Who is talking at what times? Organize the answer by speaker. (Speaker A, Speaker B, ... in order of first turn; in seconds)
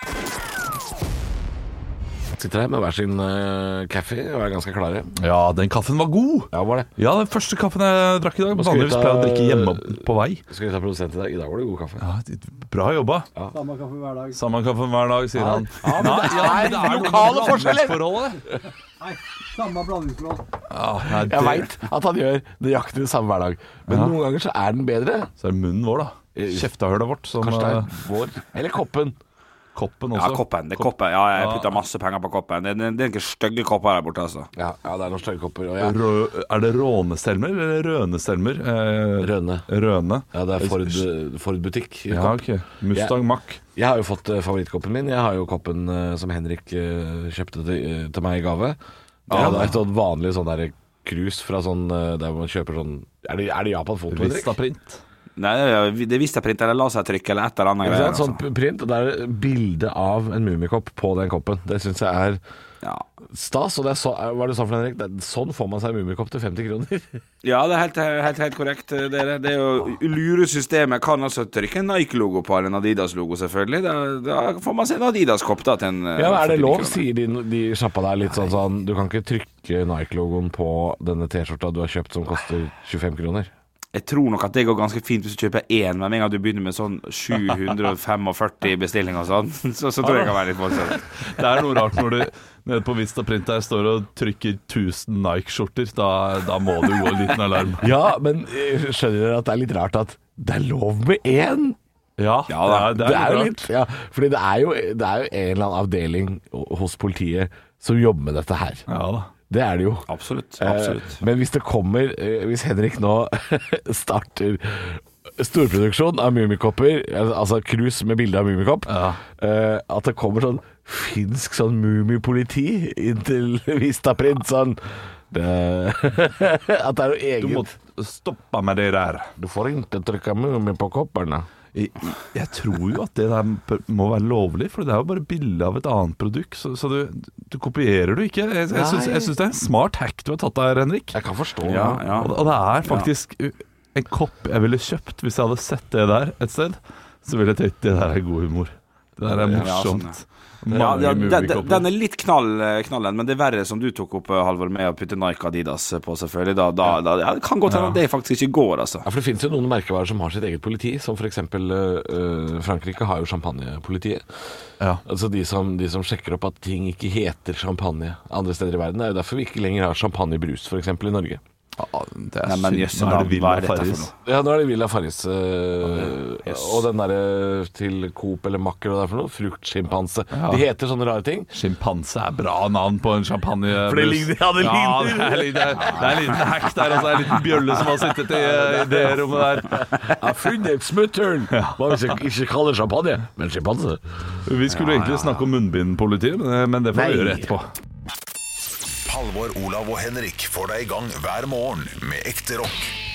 Speaker A: 2.3-5.1, 6.5-6.9, 8.5-10.0, 10.5-12.0, 15.4-18.1, 21.1-25.3, 26.4-26.7, 27.4-29.2, 34.5-36.0, 39.2-39.7, 40.3-43.2, 43.8-48.8, 49.3-54.6, 57.8-62.4, 63.3-67.2, 76.2-83.5, 97.8-101.8, 102.7-108.8, 109.5-110.1, 110.6-127.7, 129.4-131.5, 138.7-139.3, 141.1-142.3, 149.3-149.7, 159.0-164.2, 165.1-171.4, 174.2-181.5, 183.8-186.7, 188.2-194.0, 196.9-197.5
Speaker B: 5.2-10.4, 12.0-13.3, 14.3-18.4, 20.7-21.7, 23.9-24.2, 25.4-27.9, 29.8-31.8, 35.8-41.0, 42.1-43.6, 49.3-49.7, 54.1-55.0, 90.0-97.9, 102.2-103.7, 108.9-109.3, 118.9-119.2, 127.4-129.3, 131.7-141.2, 142.2-151.9, 157.7-158.0, 171.8-174.1, 180.3-180.7, 181.5-190.1, 191.5-192.1, 194.4-197.7
Speaker C: 13.5-14.4, 19.0-20.5
Speaker D: 30.1-34.5, 49.3-49.6, 55.4-58.4, 67.4-77.0, 83.9-91.0, 102.5-102.9, 110.1-111.2, 141.7-142.3, 149.6-150.2, 150.7-159.1, 172.5-174.1
Speaker E: 199.1-202.9